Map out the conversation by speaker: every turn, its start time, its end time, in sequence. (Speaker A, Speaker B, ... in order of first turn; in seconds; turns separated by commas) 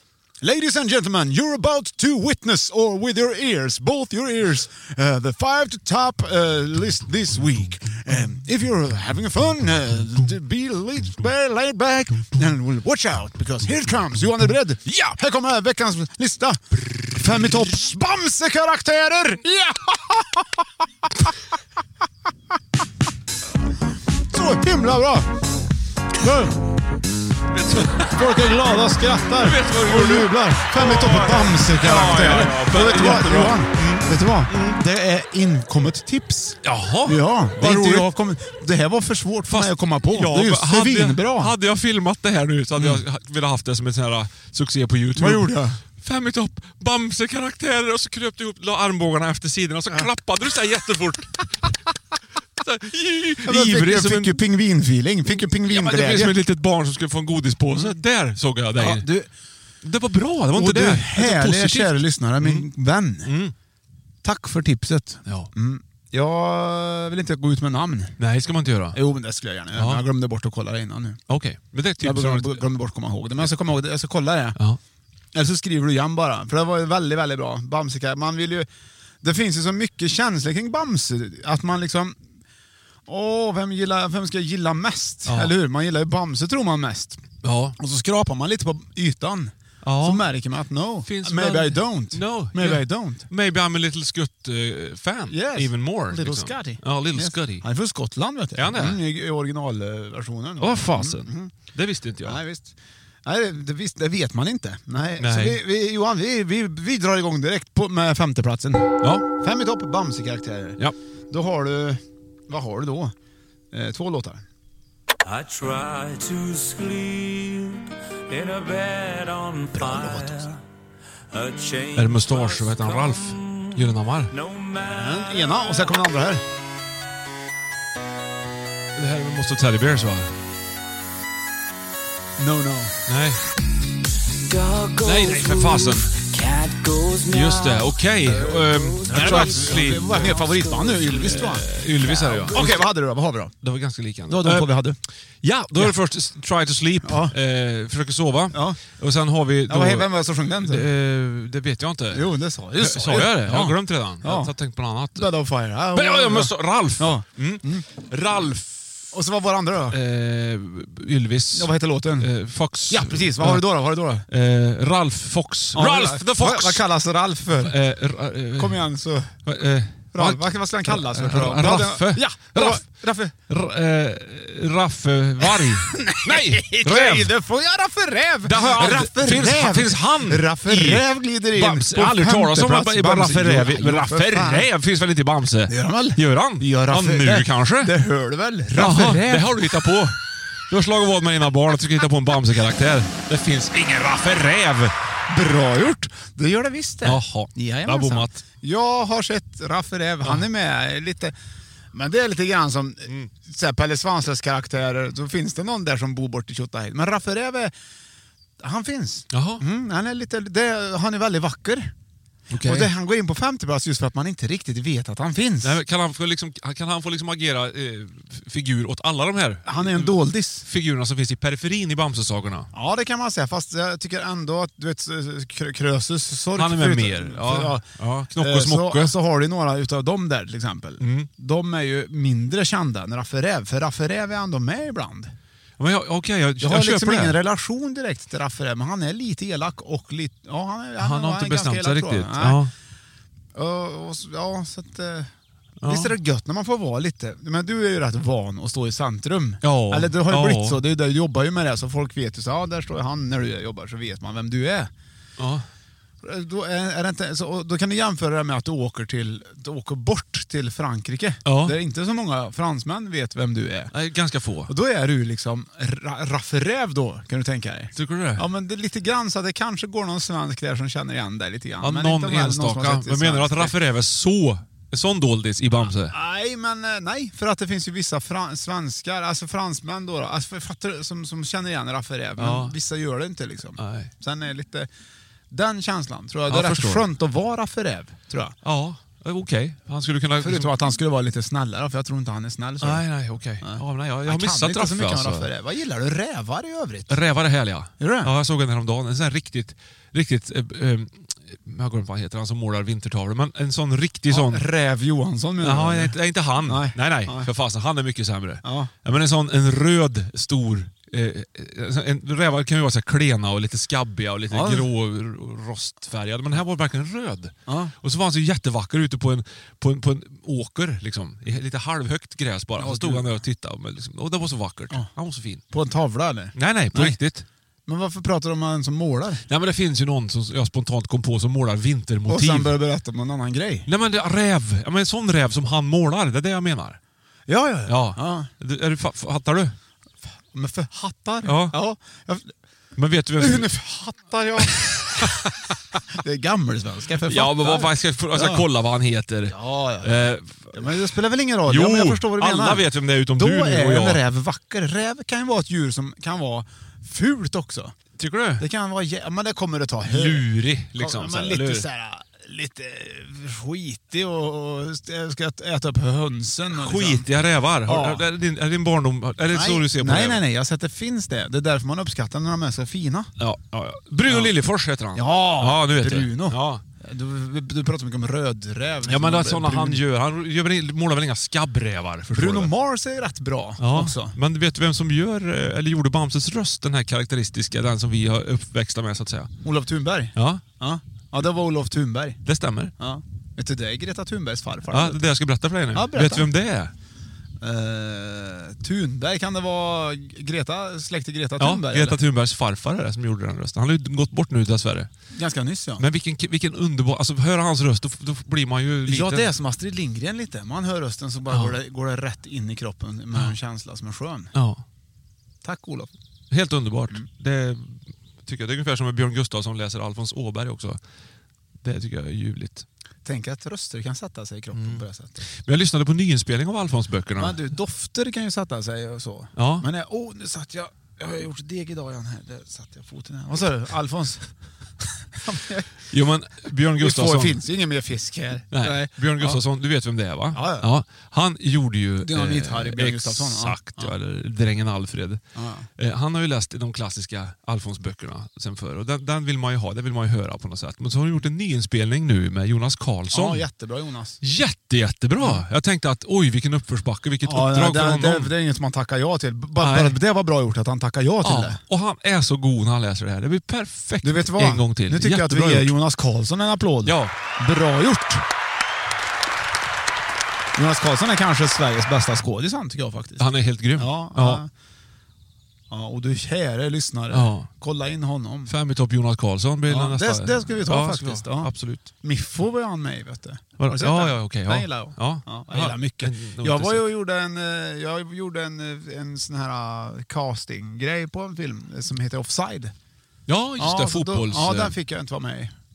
Speaker A: 0.4-20.6, Speaker B: 14.9-15.1, Speaker A: 24.3-25.3, Speaker A: 26.1-26.7, Speaker B: 27.5-28.4, Speaker A: 27.7-41.5, Speaker B: 29.4-34.8, Speaker B: 36.6-38.1, Speaker B: 39.5-51.7, Speaker A: 42.8-43.0, Speaker A: 45.1-45.8, Speaker B: 52.6-54.4, Speaker A: 53.4-56.4, Speaker B: 55.7-59.1, Speaker A: 57.7-58.0, Speaker A: 58.8-59.3, Speaker B: 59.8-62.7, Speaker A: 60.5-63.3, Speaker B: 63.2-63.5, Speaker A: 64.2-68.2, Speaker B: 65.2-65.5, Speaker B: 68.2-69.0, Speaker A: 68.9-71.2, Speaker B: 69.7-70.0, Speaker B: 71.3-72.7, Speaker A: 72.0-74.6, Speaker A: 75.3-78.7, Speaker A: 79.2-82.2, Speaker A: 83.1-87.2, Speaker B: 85.2-85.5, Speaker B: 87.4-87.8, Speaker A: 87.8-93.3, Speaker B: 89.8-90.2, Speaker B: 91.0-97.7, Speaker A: 95.3-101.5, Speaker B: 98.6-99.0, Speaker B: 100.6-102.4, Speaker A: 102.2-113.1, Speaker B: 105.2-105.6, Speaker A: 113.7-114.5, Speaker C: 115.2-120.5, Speaker A: 119.7-120.5, Speaker C: 121.3-123.8, Speaker B: 121.9-124.3, Speaker C: 124.3-125.8, Speaker A: 124.9-126.4, Speaker B: 128.9-130.3, Speaker A: 132.4-133.0, Speaker B: 133.1-133.4, Speaker C: 134.4-142.8, Speaker B: 135.0-136.2, Speaker B: 137.3-140.4, Speaker A: 139.1-141.7, Speaker B: 141.0-142.9, Speaker A: 142.3-143.5, Speaker B: 143.6-144.7, Speaker A: 144.3-145.0, Speaker B: 145.4-155.3, Speaker A: 147.0-147.3, Speaker A: 148.5-148.8, Speaker A: 149.7-150.9, Speaker A: 152.1-154.5, Speaker A: 155.1-157.8, Speaker B: 155.9-159.0, Speaker A: 159.1-160.0, Speaker B: 159.9-163.6, Speaker A: 161.5-162.3, Speaker A: 162.9-164.2, Speaker B: 164.3-166.8, Speaker A: 165.7-167.8, Speaker B: 167.5-168.9, Speaker A: 168.6-169.4, Speaker B: 169.4-177.3, Speaker A: 170.1-173.3, Speaker A: 175.4-184.7, Speaker B: 178.4-187.9, Speaker A: 185.7-190.0, Speaker B: 188.7-194.9, Speaker A: 195.3-201.3, Speaker B: 197.0-198.4, Speaker A: 201.9-207.7, Speaker A: 208.6-211.9, Speaker B: 209.3-209.6, Speaker B: 212.5-212.9, Speaker A: 212.6-215.8, Speaker B: 215.6-220.1, Speaker A: 219.7-220.7, Speaker B: 220.6-222.7, Speaker A: 222.7-227.8, Speaker B: 226.5-229.1, Speaker A: 228.3-235.3, Speaker B: 231.0-231.3, Speaker B: 235.8-237.4, Speaker A: 236.6-242.6, Speaker B: 241.0-242.7, Speaker A: 243.5-245.3, Speaker B: 245.8-246.1, Speaker A: 245.8-254.9, Speaker B: 249.6-250.8, Speaker B: 255.4-255.6, Speaker A: 256.2-263.9, Speaker B: 261.4-261.8, Speaker B: 263.9-264.7, Speaker A: 264.7-273.8, Speaker B: 267.9-268.4, Speaker B: 271.8-276.1, Speaker A: 276.0-284.9, Speaker B: 282.4-282.8, Speaker B: 283.8-284.1, Speaker A: 285.5-288.6, Speaker B: 286.5-287.0, Speaker B: 288.6-290.7, Speaker A: 290.4-293.1, Speaker B: 292.8-295.5, Speaker A: 293.6-297.2, Speaker B: 297.1-304.6, Speaker A: 298.0-298.3, Speaker A: 304.3-307.5, Speaker B: 305.6-325.6, Speaker A: 308.6-308.9, Speaker A: 314.5-314.9, Speaker A: 317.7-317.9, Speaker A: 322.8-323.3, Speaker A: 325.7-327.2, Speaker B: 326.6-327.4, Speaker A: 327.9-329.4, Speaker B: 329.5-332.7, Speaker A: 332.3-333.9, Speaker B: 333.9-337.0, Speaker A: 337.5-338.5, Speaker B: 337.9-339.7, Speaker A: 340.5-342.5, Speaker B: 341.4-341.8, Speaker B: 342.9-343.7, Speaker A: 343.4-345.4, Speaker B: 345.2-346.0, Speaker A: 346.1-348.6, Speaker B: 347.2-351.0, Speaker A: 349.5-358.0, Speaker B: 351.7-354.2, Speaker B: 358.2-358.6, Speaker A: 358.6-367.3, Speaker B: 360.1-361.9, Speaker B: 366.7-370.4, Speaker A: 367.8-368.2, Speaker A: 369.5-373.3, Speaker B: 373.4-376.8, Speaker A: 374.3-374.5, Speaker A: 375.1-380.0, Speaker B: 379.1-382.7, Speaker A: 382.3-384.4, Speaker B: 383.8-389.5, Speaker A: 389.6-392.4, Speaker B: 390.4-390.6, Speaker B: 392.4-392.9, Speaker A: 393.0-395.3, Speaker B: 394.9-396.9, Speaker A: 395.9-396.5, Speaker A: 397.6-402.2, Speaker B: 401.6-405.1, Speaker A: 405.3-406.0, Speaker B: 406.0-409.5, Speaker A: 409.1-414.5, Speaker B: 411.5-411.8, Speaker B: 414.5-414.8, Speaker A: 415.6-416.1, Speaker B: 416.5-421.0, Speaker B: 421.8-422.9, Speaker A: 423.2-425.4, Speaker B: 424.7-425.0, Speaker B: 425.6-427.6, Speaker A: 427.4-434.5, Speaker B: 429.6-429.9, Speaker A: 435.0-435.9, Speaker B: 436.1-437.6, Speaker A: 437.0-439.6, Speaker B: 438.7-445.4, Speaker A: 440.5-440.9, Speaker A: 442.2-444.1, Speaker A: 445.5-445.9, Speaker B: 446.0-453.6, Speaker A: 453.3-454.4, Speaker B: 454.4-458.5, Speaker A: 457.4-461.8, Speaker B: 459.8-460.2, Speaker B: 461.4-465.9, Speaker A: 464.2-468.4, Speaker B: 467.0-467.3, Speaker A: 470.7-474.7, Speaker B: 473.4-474.6, Speaker A: 475.9-478.7, Speaker B: 477.3-477.7, Speaker B: 478.7-482.1, Speaker A: 479.9-492.9, Speaker B: 483.8-487.1, Speaker B: 493.5-494.9, Speaker A: 493.8-495.7